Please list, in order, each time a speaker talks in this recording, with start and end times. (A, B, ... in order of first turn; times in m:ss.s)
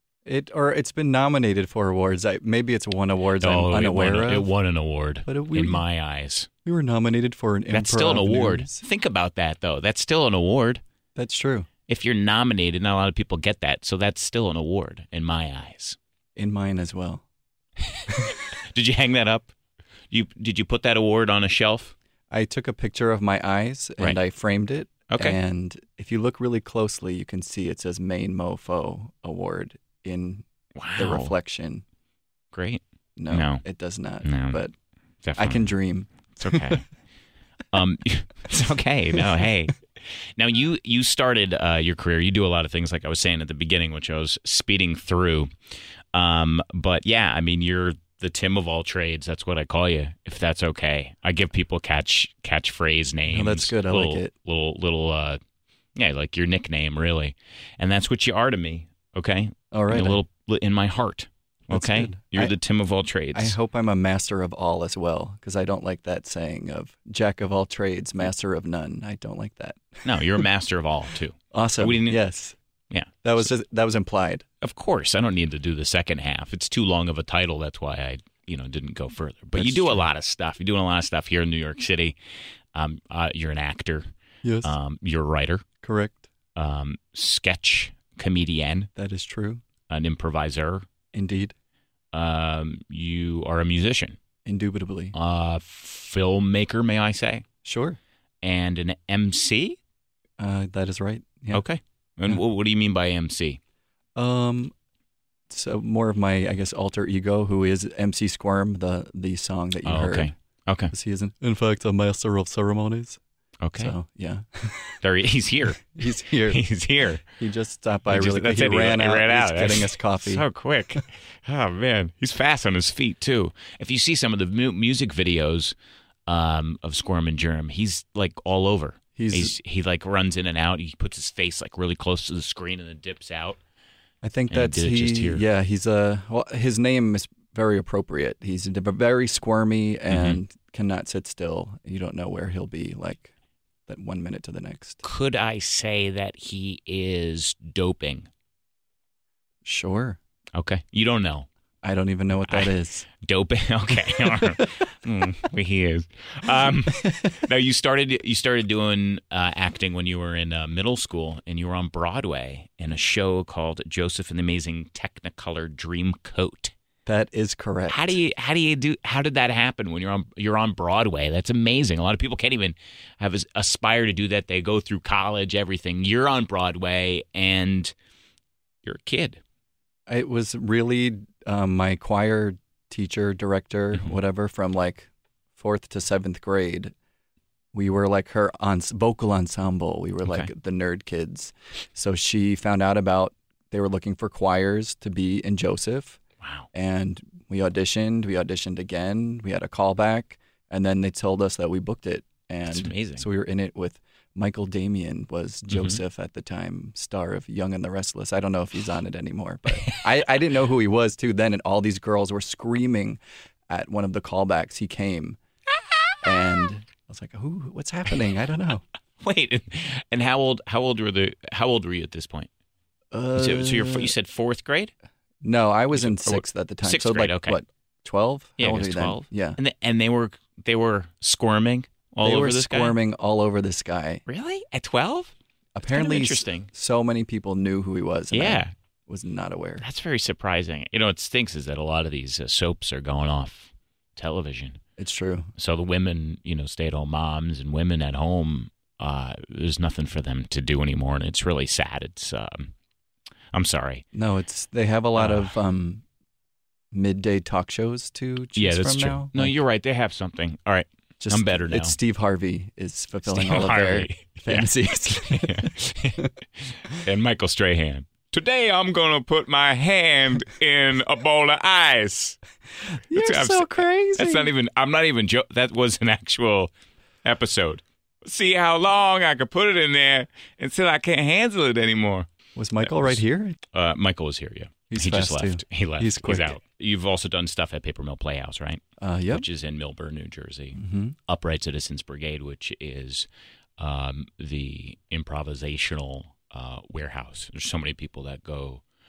0:00.2-0:04.5 A
0:03.4-0:06.5 B
0:05.2-0:05.8 A
0:06.6-0:08.8 A
0:07.7-0:10.8 B
0:11.2-0:11.7 A
0:11.9-0:16.0 B
0:16.4-0:17.2 A
0:17.9-0:19.5 B
0:20.1-0:21.9 B
0:22.3-0:30.4 A
0:25.1-0:25.4 B
0:30.8-0:31.3 B
0:31.0-0:31.8 A
0:32.5-0:33.6 B
0:33.2-0:34.7 A
0:34.2-0:34.6 B
0:35.2-0:35.7 B
0:35.4-0:36.8 A
0:36.4-0:36.8 B
0:37.7-0:39.8 B
0:40.4-0:45.5 B
0:46.1-0:55.4 B
0:53.3-0:54.3 A
0:55.9-1:03.5 B
0:59.7-1:00.2 A
1:01.7-1:02.5 A
1:03.3-1:10.4 A
1:10.0-1:12.2 B
1:11.5-1:12.6 A
1:12.9-1:13.5 B
1:13.2-1:14.4 A
1:14.6-1:22.2 B
1:19.5-1:20.0 A
1:22.7-1:24.1 B
1:24.4-1:24.7 A
1:24.6-1:25.6 B
1:25.8-1:26.2 A
1:26.6-1:28.9 B
1:29.0-1:29.6 A
1:29.9-1:30.8 B
1:31.1-1:31.5 A
1:32.1-1:34.2 B
1:34.4-1:35.1 A
1:35.1-1:37.4 B
1:37.6-1:38.0 A
1:38.4-1:39.8 B
1:40.4-1:41.6 A
1:41.5-1:43.6 B
1:44.2-1:44.7 A
1:45.5-1:50.3 A
1:49.8-1:50.9 B
1:50.9-1:53.2 A
1:53.6-1:53.9 B
1:53.7-1:55.0 A
1:55.0-1:55.9 B
1:55.9-1:56.6 A
1:56.5-1:57.2 B
1:57.4-2:00.4 A
1:58.1-2:05.7 B
2:06.3-2:13.6 B
2:09.2-2:09.5 A
2:14.2-2:23.3 A
2:14.5-2:15.4 B
2:20.1-2:20.4 B
2:23.9-2:25.0 A
2:25.0-2:28.3 B
2:29.6-2:30.2 A
2:30.5-2:31.5 B
2:31.8-2:33.1 A
2:33.2-2:46.7 B
2:47.0-2:48.2 A
2:47.9-2:57.9 B
2:58.8-2:59.4 B
3:00.1-3:06.9 A
3:07.7-3:16.2 A
3:10.2-3:10.5 B
3:16.4-3:16.7 B
3:16.7-3:35.4 A
3:22.7-3:23.3 B
3:25.7-3:26.0 B
3:36.2-3:38.8 A
3:39.2-3:42.5 B
3:43.1-3:44.1 A
3:43.4-3:44.9 B
3:45.4-3:49.6 A
3:45.9-3:47.6 B
3:48.6-3:53.0 B
3:52.2-3:54.2 A
3:54.3-3:55.3 B
3:55.7-3:59.8 A
3:55.9-3:56.7 B
3:58.3-3:58.7 B
3:59.8-4:04.8 B
4:05.0-4:05.5 A
4:05.6-4:12.7 B
4:13.5-4:14.0 B
4:14.1-4:16.0 A
4:15.2-4:15.5 B
4:16.9-4:19.5 A
4:18.6-4:22.0 B
4:21.2-4:26.2 A
4:23.2-4:26.2 B
4:26.9-4:32.4 B
4:33.1-4:34.5 A
4:33.1-4:36.7 B
4:37.2-4:42.3 B
4:42.6-4:43.6 A
4:42.8-4:43.2 B
4:43.7-4:53.3 B
4:44.9-4:46.6 A
4:49.0-4:49.4 A
4:50.8-4:51.2 A
4:53.8-4:58.8 B